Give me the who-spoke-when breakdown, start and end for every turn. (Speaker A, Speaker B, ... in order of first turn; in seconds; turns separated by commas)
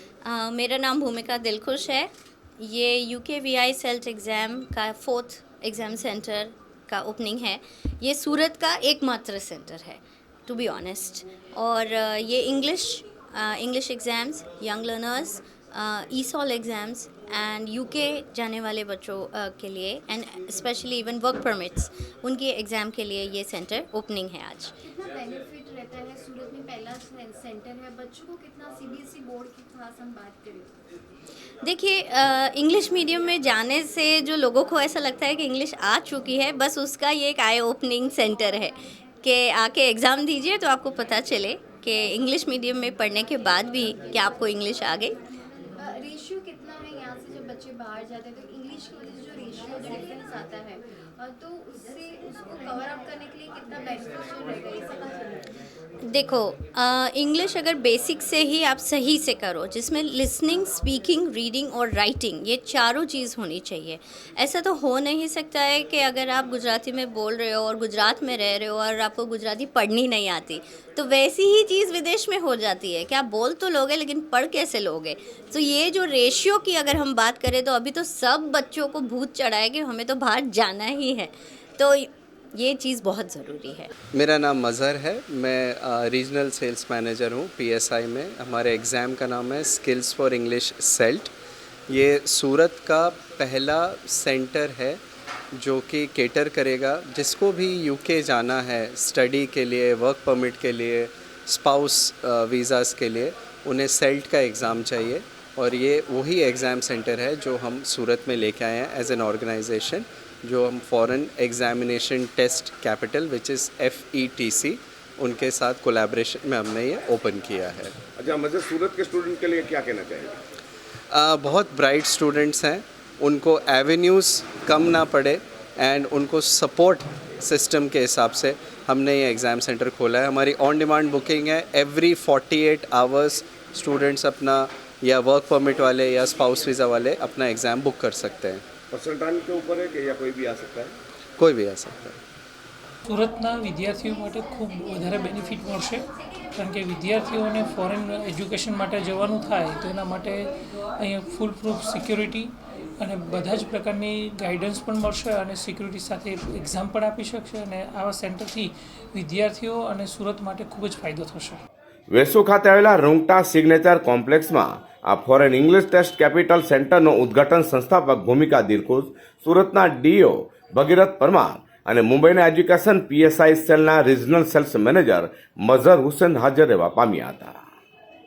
Speaker A: 0.2-24.7, Speaker B: 24.8-30.8, Speaker A: 31.6-45.2, Speaker B: 45.8-55.5, Speaker A: 56.1-83.9, Speaker C: 84.1-91.3, Speaker C: 91.9-95.0, Speaker C: 95.5-118.0, Speaker D: 118.2-120.3, Speaker C: 121.1-138.6, Speaker D: 138.9-140.9, Speaker C: 141.4-142.2, Speaker E: 143.0-161.6, Speaker D: 162.1-177.5